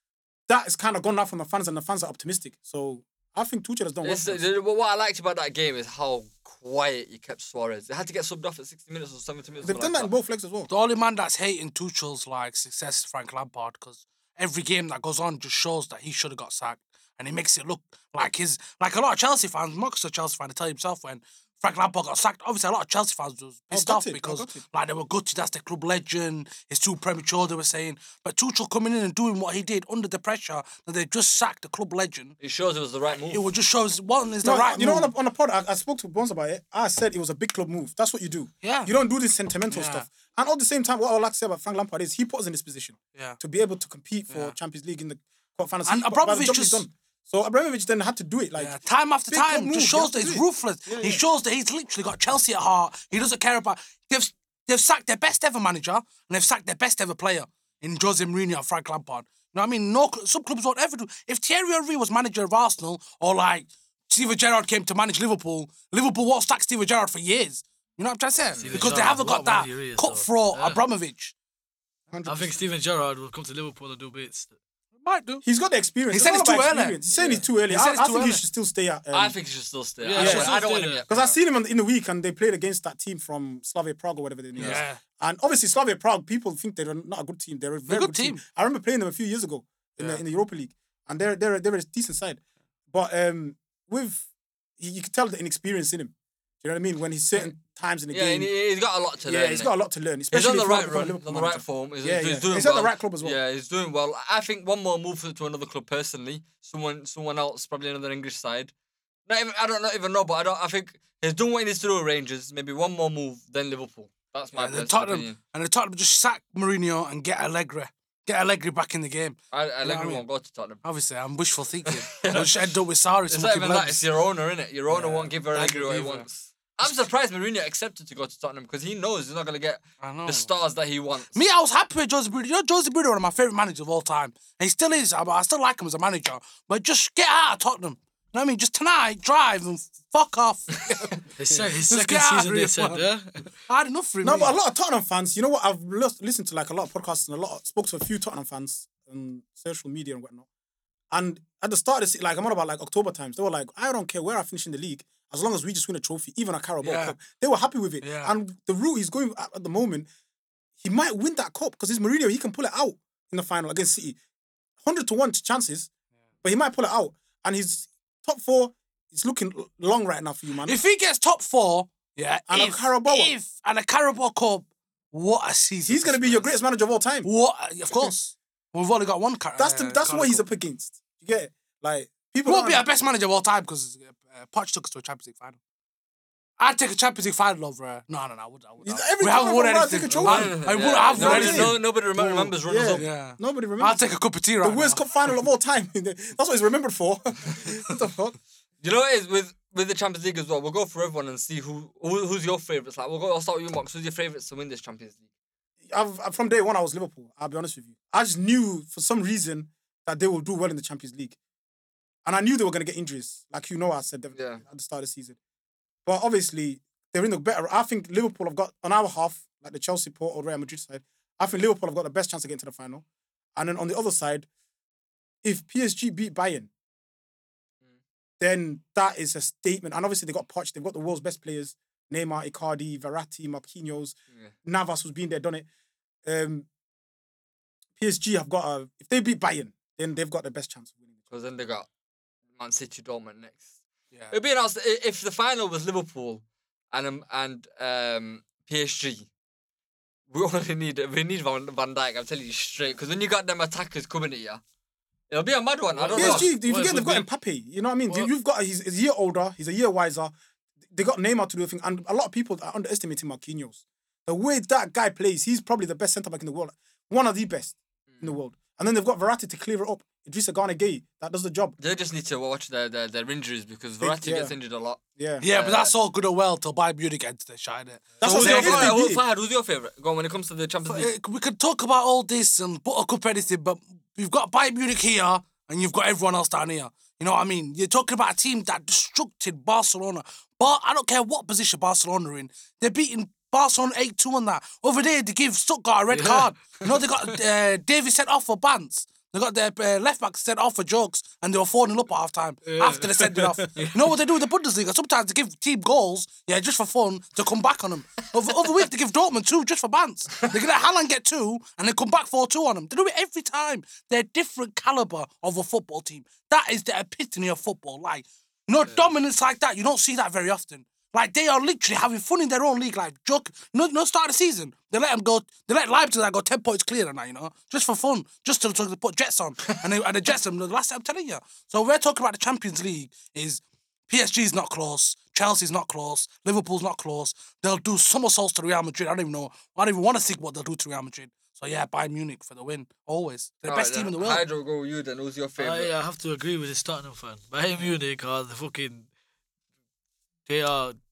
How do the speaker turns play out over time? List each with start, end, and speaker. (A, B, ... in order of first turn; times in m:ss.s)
0:00.5-0:04.4 A
0:04.0-0:10.1 B
0:09.6-0:10.7 A
0:10.7-0:32.4 C
0:23.7-0:24.6 A
0:32.4-0:33.4 B
0:33.3-0:35.1 C
0:34.4-0:51.2 A
0:38.6-0:38.9 C
0:39.7-0:40.1 C
0:44.3-0:44.5 C
0:45.8-0:46.8 C
0:48.6-1:11.3 C
1:08.6-1:08.8 B
1:08.7-1:10.8 D
1:12.1-1:12.6 A
1:12.2-1:14.5 D
1:15.0-1:15.4 C
1:15.4-1:19.3 A
1:16.1-1:18.4 C
1:17.1-1:17.4 B
1:19.1-1:21.1 B
1:20.0-1:21.0 D
1:20.2-1:34.2 A
1:24.6-1:25.0 C
1:27.9-1:28.4 C
1:34.8-1:38.5 A
1:38.1-1:39.7 B
1:39.2-1:43.4 A
1:40.3-1:48.7 B
1:49.3-1:55.4 B
1:54.5-2:00.2 C
1:59.5-2:00.8 B
2:00.8-2:04.0 C
2:01.9-2:02.5 B
2:03.3-2:11.4 B
2:04.9-2:06.2 C
2:10.0-2:10.5 C
2:11.3-2:21.2 C
2:21.4-2:23.5 D
2:21.8-2:23.0 C
2:23.7-2:24.5 C
2:24.2-2:30.4 A
2:31.1-2:40.1 A
2:36.8-2:37.2 C
2:38.0-2:38.3 C
2:40.8-2:44.2 A
2:44.8-2:45.9 A
2:46.4-2:50.8 A
2:50.6-2:56.5 C
2:52.5-2:53.3 A
2:55.8-2:57.3 A
2:57.2-3:00.4 C
2:59.6-3:02.8 A
3:02.4-3:05.6 C
3:06.6-3:11.8 C
3:08.8-3:18.4 A
3:10.2-3:13.0 B
3:12.9-3:15.0 C
3:18.8-3:25.2 B
3:25.8-3:31.4 A
3:32.2-3:35.4 A
3:34.3-3:34.6 B
3:36.0-3:43.0 A
3:43.6-3:44.5 A
3:45.4-3:46.7 A
3:48.4-3:55.6 A
3:56.2-3:56.7 A
3:58.0-4:01.2 A
4:01.3-4:01.9 B
4:02.6-4:03.6 B
4:04.3-4:09.3 B
4:10.3-4:14.6 B
4:15.3-4:16.5 B
4:16.0-4:17.3 D
4:16.2-4:20.3 A
4:20.9-4:31.7 A
4:28.1-4:28.4 B
4:31.8-4:35.9 B
4:34.0-4:34.5 A
4:35.1-4:35.4 A
4:35.4-4:39.0 C
4:38.2-4:39.2 A
4:38.2-4:41.1 B
4:40.9-5:44.4 C
4:56.1-4:57.3 D
5:02.7-5:03.9 D
5:43.6-5:45.9 B
5:45.6-5:49.1 D
5:50.5-5:51.0 D